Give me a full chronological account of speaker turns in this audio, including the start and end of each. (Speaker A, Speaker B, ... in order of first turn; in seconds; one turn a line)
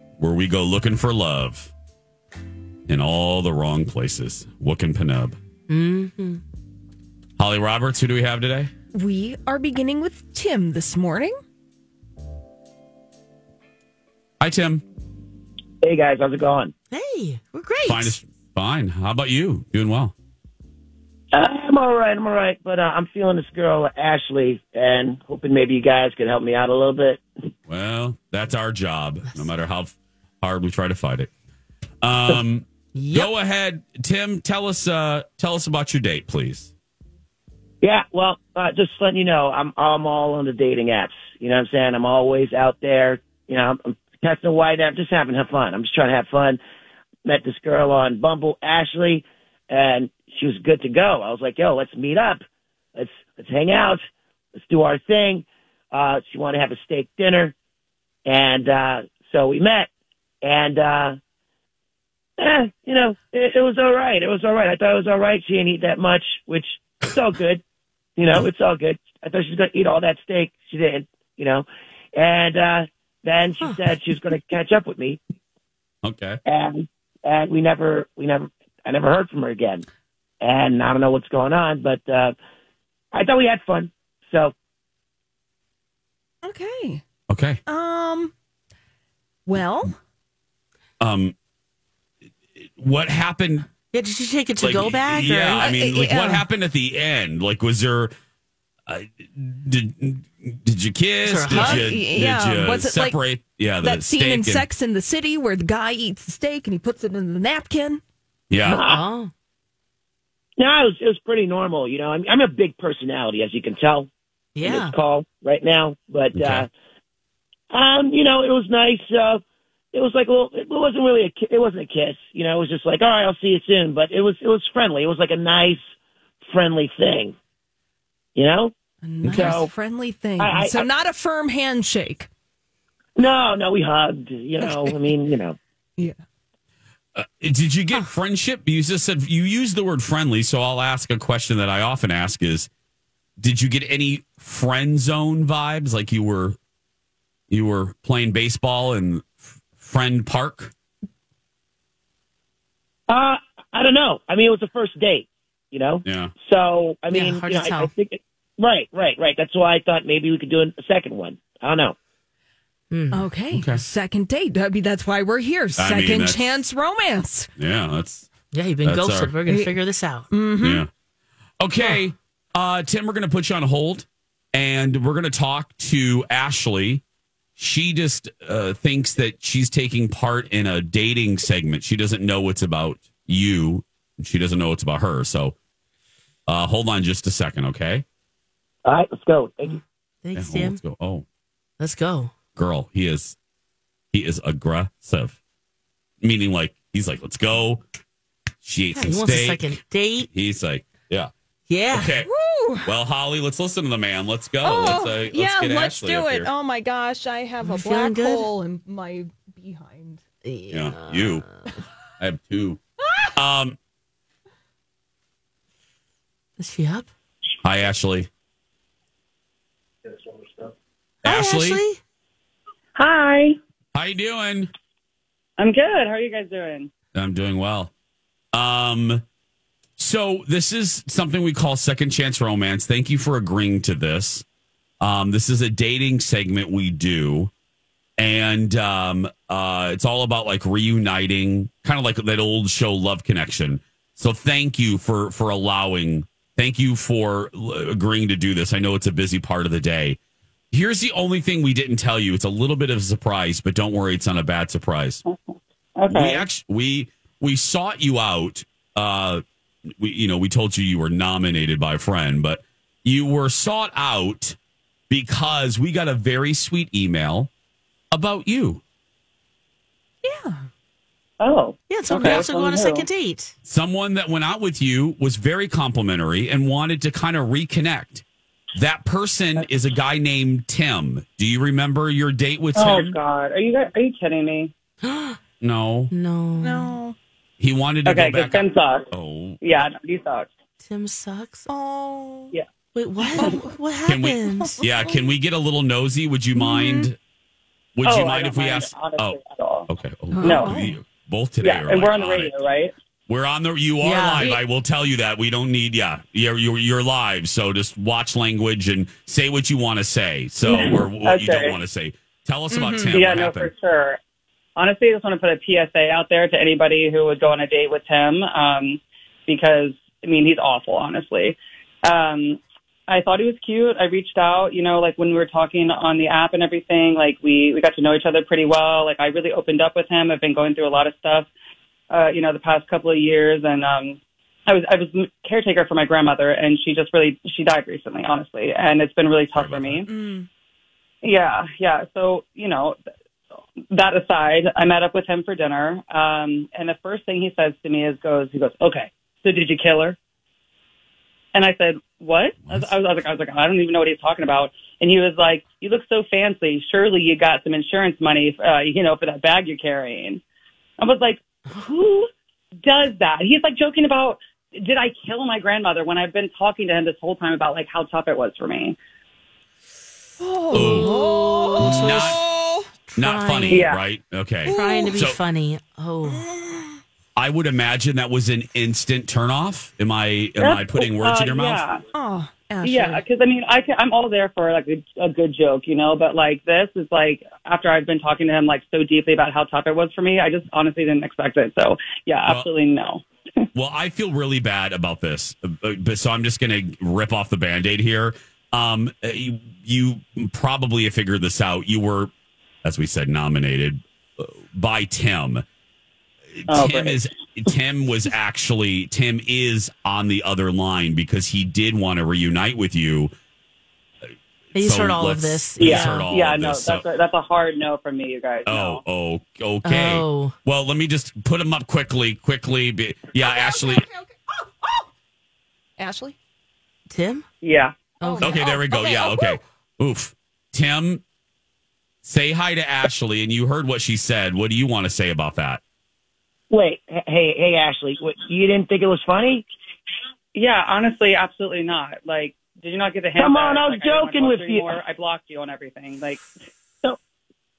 Speaker A: 0.2-1.7
Speaker A: 2.9-5.4
Speaker B: 5.7-6.4
Speaker A: 7.4-8.7
Speaker C: 8.9-11.3
Speaker A: 14.4-14.8
Speaker D: 15.8-16.7
Speaker B: 16.9-18.2
Speaker A: 17.8-20.1
Speaker D: 21.3-27.2
Speaker A: 27.7-31.3
Speaker A: 32.0-36.7
Speaker B: 33.0-33.3
Speaker D: 37.8-46.6
Speaker D: 47.3-52.4
Speaker D: 53.0-54.0
Speaker D: 54.6-57.5
Speaker D: 58.3-59.9
Speaker D: 60.4-61.2
Speaker D: 62.4-67.6
Speaker D: 68.2-75.2
Speaker A: 76.0-76.4
Speaker D: 76.5-79.8
Speaker D: 80.4-82.3
Speaker D: 83.1-84.5
Speaker C: 86.4-87.0
Speaker A: 87.3-87.6
Speaker C: 87.7-88.3
Speaker C: 89.5-90.0
Speaker A: 91.0-91.3
Speaker A: 92.6-93.7
Speaker B: 93.9-95.7
Speaker A: 94.6-98.1
Speaker C: 95.6-96.5
Speaker A: 98.9-104.7
Speaker B: 101.2-101.8
Speaker C: 101.5-103.2
Speaker C: 103.8-108.0
Speaker A: 108.5-108.8
Speaker B: 108.7-109.3
Speaker D: 108.7-109.0
Speaker D: 110.6-114.1
Speaker B: 114.6-114.9
Speaker D: 114.6-116.7
Speaker A: 116.4-116.7
Speaker D: 117.7-125.8
Speaker D: 126.5-127.3
Speaker D: 128.4-128.7
Speaker C: 129.0-132.3
Speaker A: 129.2-129.6
Speaker D: 129.3-129.7
Speaker D: 130.4-130.9
Speaker D: 133.2-135.6
Speaker C: 134.6-135.0
Speaker A: 137.2-142.7
Speaker A: 143.4-146.6
Speaker A: 147.5-150.7
Speaker D: 153.1-161.9
Speaker A: 156.1-156.3
Speaker B: 157.1-157.9
Speaker B: 162.9-163.3
Speaker C: 163.1-167.5
Speaker A: 163.5-163.8
Speaker A: 165.8-166.7
Speaker A: 167.6-168.3
Speaker B: 168.5-170.3
Speaker A: 168.8-169.3
Speaker C: 169.5-169.8
Speaker C: 170.3-170.9
Speaker A: 170.6-170.9
Speaker A: 171.6-177.0
Speaker A: 177.6-185.6
Speaker A: 186.5-188.1
Speaker D: 188.8-189.8
Speaker B: 190.2-190.8
Speaker A: 190.3-191.2
Speaker B: 191.8-192.3
Speaker A: 192.6-193.4
Speaker A: 194.1-195.4
Speaker A: 196.2-197.8
Speaker A: 198.6-201.3
Speaker B: 198.9-200.3
Speaker B: 201.7-202.2
Speaker A: 201.9-202.3
Speaker C: 202.2-202.9
Speaker A: 202.8-206.5
Speaker C: 204.6-210.2
Speaker B: 207.6-208.5
Speaker B: 210.4-211.7
Speaker A: 210.7-211.4
Speaker A: 212.2-212.8
Speaker A: 213.3-213.8
Speaker B: 216.6-217.1
Speaker A: 217.6-218.3
Speaker B: 221.2-222.0
Speaker A: 221.3-221.8
Speaker E: 223.0-223.6
Speaker A: 223.9-224.7
Speaker E: 225.6-226.9
Speaker A: 227.1-227.9
Speaker A: 228.5-229.2
Speaker A: 230.0-234.4
Speaker A: 235.0-237.5
Speaker A: 238.2-250.2
Speaker A: 250.7-255.2
Speaker E: 255.3-256.5
Speaker A: 256.1-259.4
Speaker A: 260.0-264.6
Speaker A: 265.1-267.5
Speaker A: 268.1-268.8
Speaker C: 270.2-270.7
Speaker E: 271.4-273.1
Speaker B: 271.9-273.5
Speaker A: 273.6-278.2
Speaker A: 278.8-283.2
Speaker E: 282.8-284.7
Speaker B: 285.0-285.4
Speaker A: 285.6-286.1
Speaker B: 286.1-287.0
Speaker C: 286.6-287.2
Speaker A: 287.6-289.9
Speaker E: 288.1-289.1
Speaker E: 289.6-290.5
Speaker B: 290.8-291.7
Speaker C: 291.7-292.5
Speaker B: 292.9-294.8
Speaker C: 293.4-293.7
Speaker A: 294.1-297.2
Speaker C: 294.5-295.1
Speaker C: 296.6-297.1
Speaker A: 298.0-299.4
Speaker E: 298.0-299.9
Speaker A: 299.9-302.5
Speaker C: 300.4-301.0
Speaker E: 300.4-300.8
Speaker E: 301.6-302.9
Speaker A: 303.3-313.7
Speaker B: 304.0-304.5
Speaker E: 310.7-311.8
Speaker C: 312.7-313.2
Speaker E: 313.1-314.2
Speaker E: 314.8-331.5
Speaker E: 332.1-340.1
Speaker A: 339.5-340.0
Speaker C: 340.1-340.5
Speaker E: 341.2-343.0
Speaker E: 343.9-350.2
Speaker E: 351.5-360.4
Speaker A: 352.6-352.9
Speaker E: 361.0-362.3
Speaker E: 362.8-369.0
Speaker C: 370.4-372.9
Speaker A: 370.7-371.2
Speaker B: 370.8-372.4
Speaker A: 371.8-372.4
Speaker B: 373.1-373.9
Speaker A: 373.2-375.4
Speaker E: 373.7-374.0
Speaker B: 374.6-376.5
Speaker C: 374.7-375.1
Speaker C: 376.3-377.0
Speaker A: 377.4-381.8
Speaker E: 380.6-382.0
Speaker C: 382.1-383.2
Speaker E: 382.8-393.2
Speaker A: 393.7-402.3
Speaker A: 402.8-405.6
Speaker A: 406.6-413.3
Speaker E: 406.7-407.2
Speaker B: 414.7-416.2
Speaker A: 414.8-417.0
Speaker E: 415.8-419.0
Speaker A: 418.7-424.1
Speaker B: 419.9-420.6
Speaker C: 423.4-425.1
Speaker C: 426.0-426.4
Speaker B: 427.1-427.4
Speaker E: 427.6-428.2
Speaker B: 428.2-428.6
Speaker C: 428.2-429.6
Speaker A: 428.4-431.2
Speaker A: 432.2-435.8
Speaker D: 436.7-439.6
Speaker E: 440.6-446.4
Speaker D: 443.4-445.0